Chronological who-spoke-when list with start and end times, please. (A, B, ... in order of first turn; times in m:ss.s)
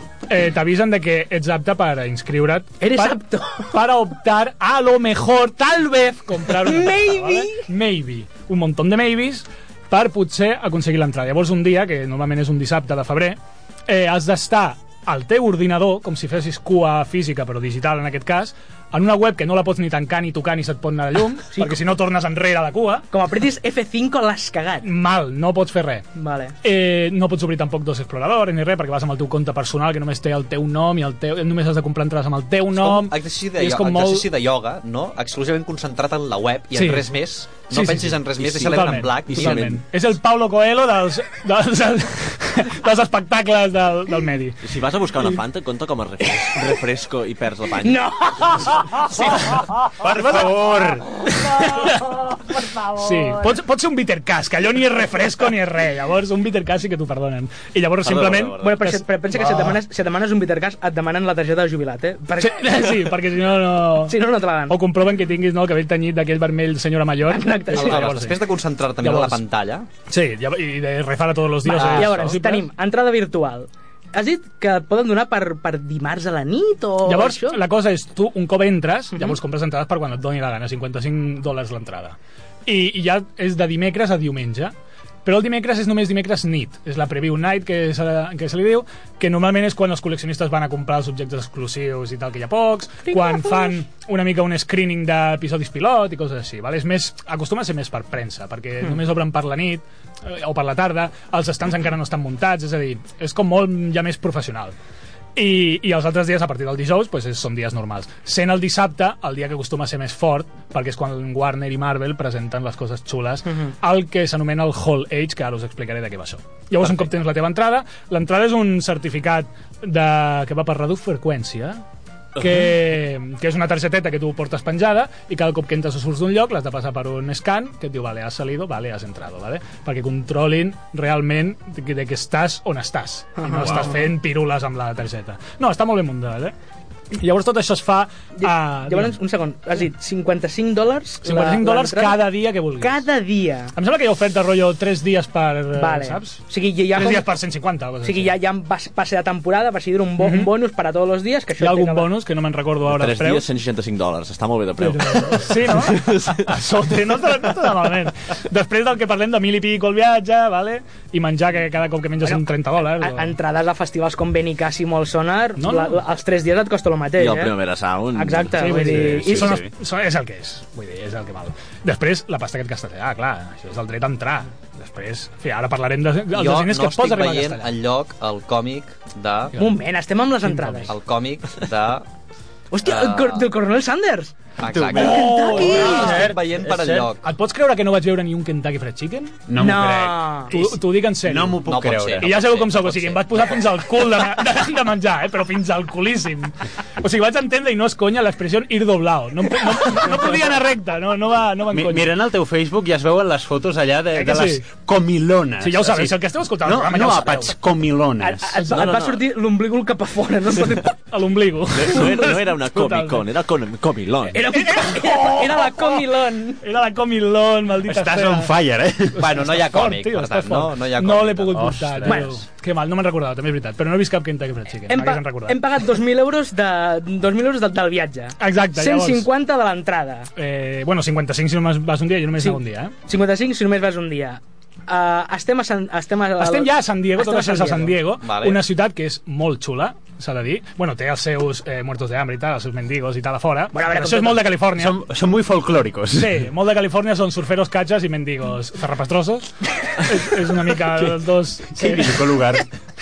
0:00.3-0:23.1 A
0:02.8-0:03.8 B
0:06.6-0:07.6 B
0:23.1-0:24.9 B
0:24.8-0:26.0 A
0:26.2-0:26.6 B
0:26.6-0:34.3 A
0:32.7-0:39.7 C
0:36.7-0:37.1 A
0:37.7-0:44.6 A
0:39.3-0:39.8 D
0:44.6-0:48.0 D
0:47.8-0:48.9 B
0:49.2-0:50.6 A
0:50.0-0:51.1 E
0:51.3-0:52.2 A
0:51.8-0:53.4 B
0:53.0-0:59.8 A
0:58.0-0:58.8 D
0:58.6-1:02.9 B
1:02.4-1:08.4 A
1:04.0-1:04.8 B
1:07.3-1:08.1 B
1:07.7-1:09.9 C
1:09.0-1:09.4 A
1:10.1-1:12.7 A
1:11.6-1:17.6 B
1:11.8-1:12.4 C
1:17.0-1:24.7 A
1:25.2-1:44.8 A
1:33.1-1:33.7 B
1:45.4-2:01.8 A
2:02.4-2:16.5 A
2:13.4-2:14.0 B
2:17.1-2:19.2 A
2:18.4-2:22.3 B
2:21.2-2:23.0 A
2:22.8-2:23.7 B
2:23.8-2:26.4 A
2:25.8-2:27.3 B
2:26.9-2:28.4 A
2:28.0-2:32.1 B
2:30.2-2:30.5 A
2:31.6-2:33.5 A
2:32.9-2:36.5 D
2:34.8-2:43.4 A
2:43.0-2:47.6 B
2:45.6-2:46.0 A
2:47.2-2:48.8 D
2:48.2-2:49.6 B
2:48.6-2:57.7 A
2:48.9-2:49.7 E
2:56.3-2:59.6 C
2:59.6-3:00.9 B
3:00.4-3:00.9 A
3:00.9-3:02.1 C
3:02.7-3:04.3 B
3:02.8-3:03.5 C
3:04.6-3:07.3 C
3:04.7-3:07.1 E
3:04.9-3:06.2 B
3:05.0-3:06.2 A
3:07.2-3:09.4 A
3:09.5-3:10.2 E
3:09.6-3:10.7 B
3:10.5-3:11.7 A
3:11.2-3:12.3 E
3:11.6-3:13.8 C
3:12.2-3:22.1 A
3:21.7-3:28.6 E
3:24.2-3:24.6 A
3:25.6-3:27.6 A
3:28.2-3:30.9 B
3:28.6-3:28.9 A
3:28.7-3:29.2 D
3:31.0-3:33.2 A
3:31.7-3:34.4 D
3:34.3-3:36.6 B
3:34.4-3:38.5 A
3:37.9-3:39.2 E
3:39.1-3:45.6 A
3:39.2-3:41.7 C
3:41.5-3:42.2 E
3:42.1-3:42.4 B
3:44.9-3:50.3 B
3:48.4-3:49.3 A
3:50.4-3:52.9 A
3:52.4-3:58.0 B
3:56.4-4:05.0 A
3:58.2-3:58.6 C
4:03.7-4:04.5 B
4:04.8-4:06.5 E
4:06.1-4:12.3 A
4:11.8-4:12.7 E